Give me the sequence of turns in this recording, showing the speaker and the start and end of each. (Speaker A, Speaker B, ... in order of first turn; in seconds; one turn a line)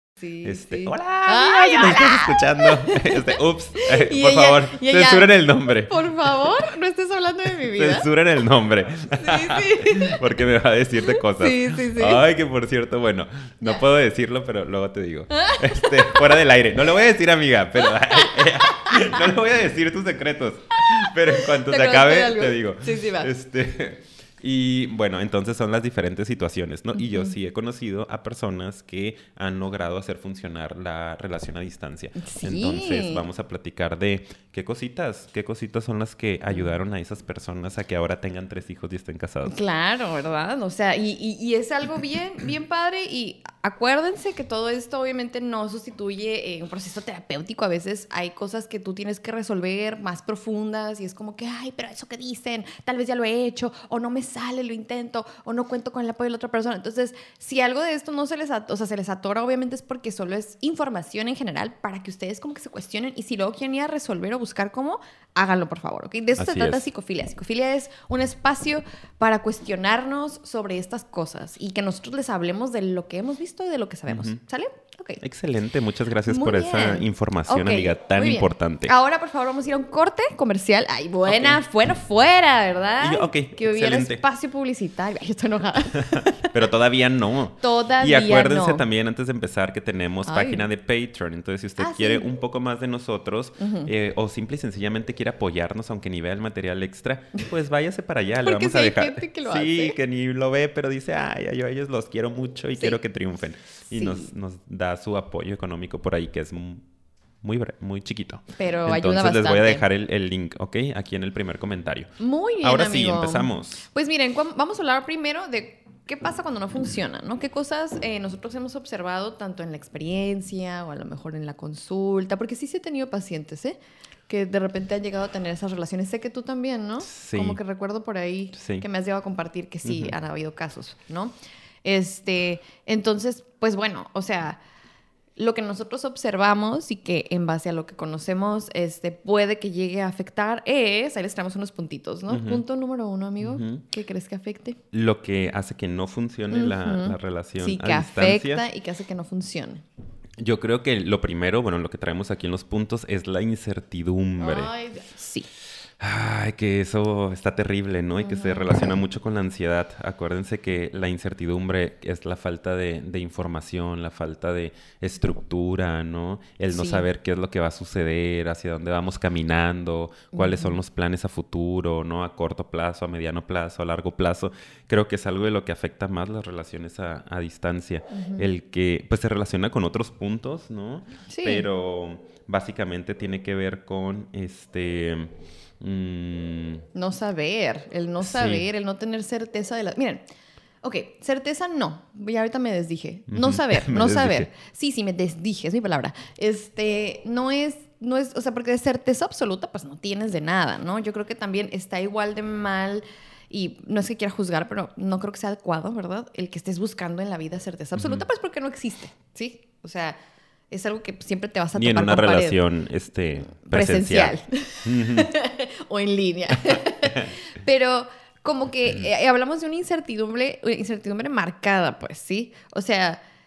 Speaker A: 0.2-8.1
Speaker B: 0.4-6.5
Speaker B: 7.6-39.6
Speaker A: 9.2-10.2
Speaker A: 11.3-12.2
Speaker A: 15.3-16.3
Speaker A: 18.1-19.2
Speaker A: 21.3-23.3
Speaker A: 27.0-27.3
Speaker A: 32.2-33.2
Speaker A: 39.5-75.2
Speaker B: 66.4-66.8
Speaker B: 74.1-74.4
Speaker B: 75.2-78.9
Speaker A: 76.3-86.5
Speaker B: 81.3-81.6
Speaker B: 83.0-84.2
Speaker B: 86.0-106.8
Speaker A: 87.6-88.8
Speaker A: 90.3-90.7
Speaker A: 91.8-92.3
Speaker A: 93.6-93.9
Speaker A: 98.4-100.0
Speaker A: 103.9-104.3
Speaker B: 107.4-113.8
Speaker A: 108.6-109.8
Speaker A: 112.2-123.8
Speaker A: 124.3-131.3
Speaker B: 127.0-127.6
Speaker B: 128.6-128.8
Speaker B: 129.8-130.1
Speaker A: 131.8-134.6
Speaker A: 135.4-144.8
Speaker B: 142.3-142.6
Speaker B: 143.4-143.8
Speaker B: 144.9-148.6
Speaker A: 146.5-149.8
Speaker B: 150.4-154.7
Speaker A: 154.4-155.5
Speaker B: 156.0-186.9
Speaker A: 158.2-158.9
Speaker A: 166.7-167.1
Speaker A: 170.3-170.8
Speaker A: 178.1-178.5
Speaker A: 181.3-181.7
Speaker A: 186.9-190.2
Speaker B: 188.2-188.7
Speaker A: 190.8-210.2
Speaker B: 193.3-194.5
Speaker B: 208.0-208.2
Speaker A: 210.7-212.6
Speaker B: 211.8-215.3
Speaker A: 213.6-223.2
Speaker B: 216.7-217.3